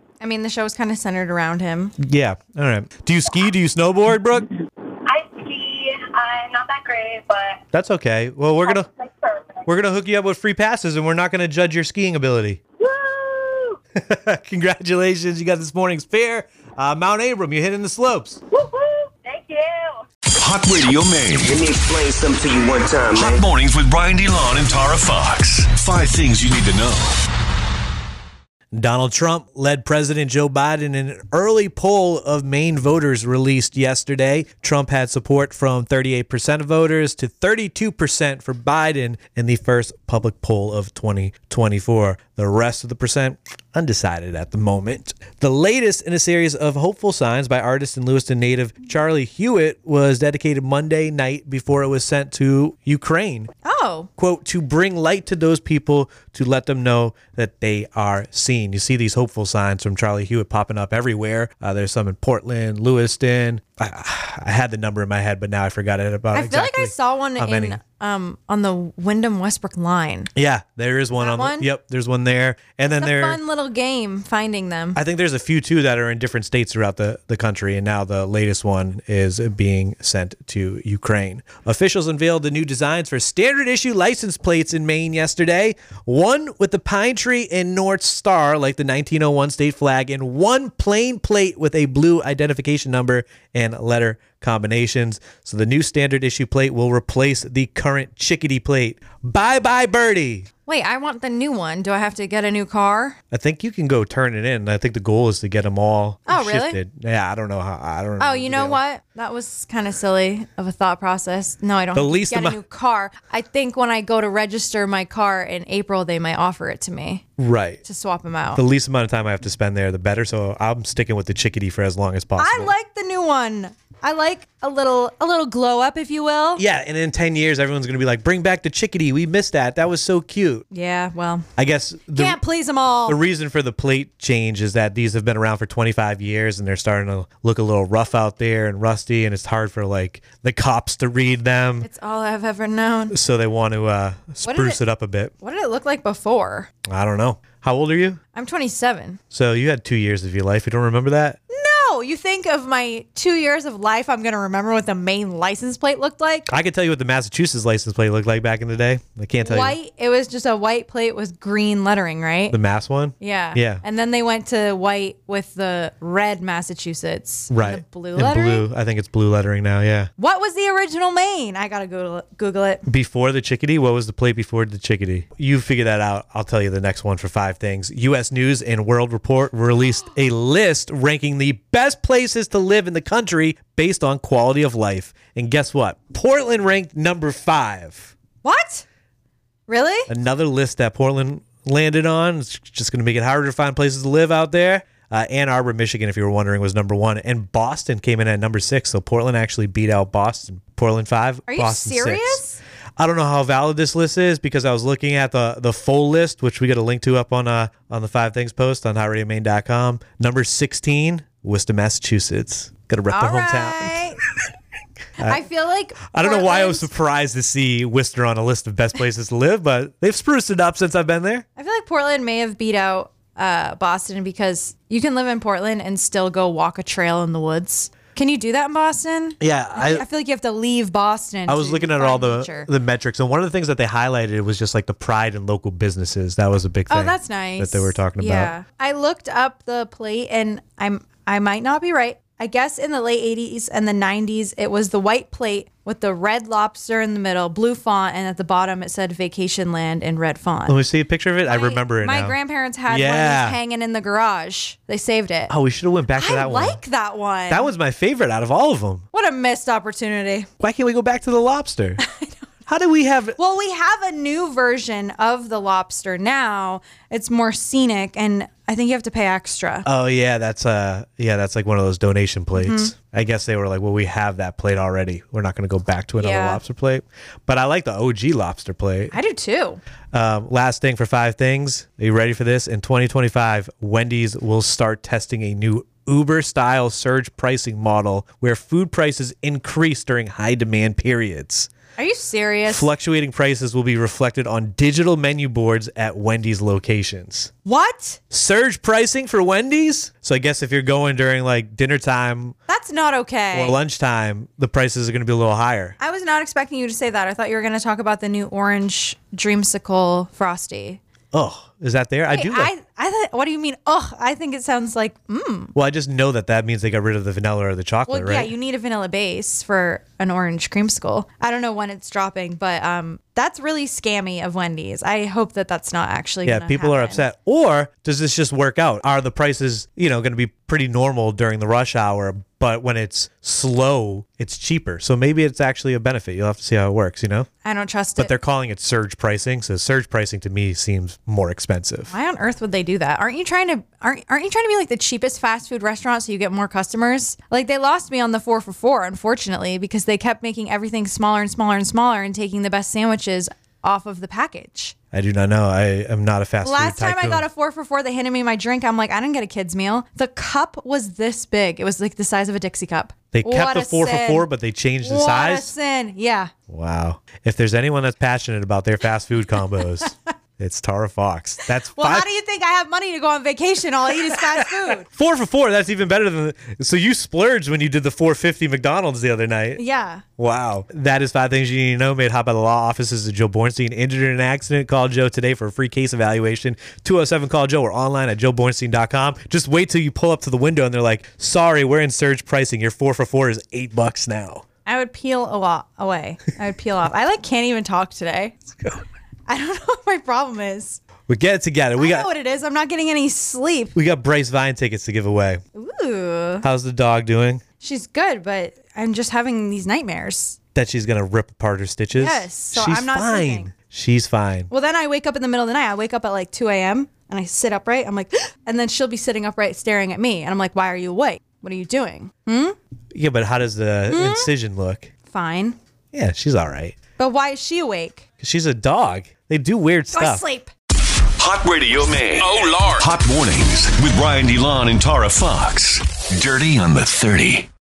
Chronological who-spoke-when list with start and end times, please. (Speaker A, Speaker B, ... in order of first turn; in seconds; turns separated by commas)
Speaker A: 0.2-1.9, Speaker B: 2.0-4.5, Speaker C: 5.0-7.6, Speaker B: 7.7-8.9, Speaker C: 8.7-9.6, Speaker B: 9.7-12.6, Speaker C: 12.8-13.8, Speaker B: 13.9-18.4, Speaker C: 18.5-20.0, Speaker D: 20.3-21.6, Speaker E: 21.4-23.4, Speaker D: 23.1-27.2, Speaker B: 28.7-53.5, Speaker A: 53.6-54.1, Speaker B: 54.2-67.8, Speaker A: 66.3-70.3, Speaker B: 70.3-73.4, Speaker A: 71.2-71.7, Speaker A: 73.0-75.0, Speaker B: 75.0-100.5, Speaker A: 100.7-103.2, Speaker B: 103.3-108.8, Speaker A: 106.3-106.8, Speaker A: 108.2-117.2, Speaker B: 111.9-112.6, Speaker B: 117.4-117.8, Speaker A: 117.8-118.6, Speaker B: 118.5-122.7, Speaker A: 122.4-126.6, Speaker B: 126.5-130.6, Speaker A: 130.7-131.5, Speaker B: 131.6-132.4, Speaker A: 132.1-133.2, Speaker B: 133.1-141.9, Speaker A: 141.8-143.1, Speaker B: 143.1-145.3, Speaker A: 144.4-144.8, Speaker A: 145.4-146.7, Speaker B: 146.8-148.2, Speaker A: 148.3-149.2, Speaker B: 149.3-151.4, Speaker A: 151.5-156.5, Speaker B: 156.5-159.8, Speaker A: 159.4-162.6, Speaker B: 162.5-163.8, Speaker A: 163.2-168.7, Speaker B: 167.5-170.1, Speaker A: 170.2-172.8, Speaker B: 172.8-188.1, Speaker A: 188.4-188.8, Speaker A: 189.7-190.1, Speaker B: 190.1-202.4, Speaker A: 201.5-202.6, Speaker B: 203.0-214.0, Speaker A: 213.1-214.2, Speaker A: 215.2-216.9, Speaker B: 216.1-221.4, Speaker A: 221.6-232.7, Speaker B: 229.4-230.0, Speaker B: 231.5-238.5, Speaker A: 236.9-250.8, Speaker B: 250.7-252.3, Speaker A: 251.5-255.5, Speaker B: 252.9-253.6, Speaker B: 255.5-256.8, Speaker A: 256.1-257.7, Speaker B: 257.5-259.0, Speaker A: 259.1-260.5, Speaker B: 260.6-262.0, Speaker B: 262.7-263.4, Speaker A: 263.4-269.9, Speaker B: 269.9-279.1, Speaker A: 272.6-272.9, Speaker A: 276.2-276.6, Speaker A: 279.1-279.8, Speaker B: 280.1-291.7, Speaker A: 292.0-292.9, Speaker B: 292.7-297.5, Speaker A: 297.6-298.2, Speaker B: 298.3-302.6, Speaker A: 302.7-303.8, Speaker B: 303.5-305.9, Speaker A: 306.0-311.0, Speaker B: 311.3-312.7, Speaker A: 312.3-315.7, Speaker B: 315.7-318.5, Speaker A: 318.1-327.2, Speaker B: 326.4-337.5, Speaker A: 337.6-338.3, Speaker B: 338.2-342.1, Speaker A: 342.1-354.9, Speaker B: 355.1-357.4, Speaker A: 356.6-364.5, Speaker B: 363.3-365.7, Speaker A: 365.0-366.5, Speaker B: 366.7-372.3, Speaker A: 371.9-375.1, Speaker B: 374.2-379.8, Speaker A: 379.8-380.2, Speaker B: 380.4-394.6, Speaker A: 394.9-398.6, Speaker A: 399.5-401.0, Speaker B: 401.3-402.3, Speaker A: 402.0-403.9, Speaker B: 403.9-405.6, Speaker A: 405.7-406.6, Speaker B: 406.6-407.6, Speaker A: 407.8-410.6, Speaker B: 410.7-414.7, Speaker A: 412.2-413.7, Speaker A: 414.7-422.8, Speaker B: 423.1-425.1, Speaker A: 424.1-424.5, Speaker A: 425.3-425.8, Speaker B: 426.1-427.0, Speaker A: 427.2-428.2, Speaker B: 428.4-430.4, Speaker A: 430.1-430.7, Speaker D: 431.4-437.7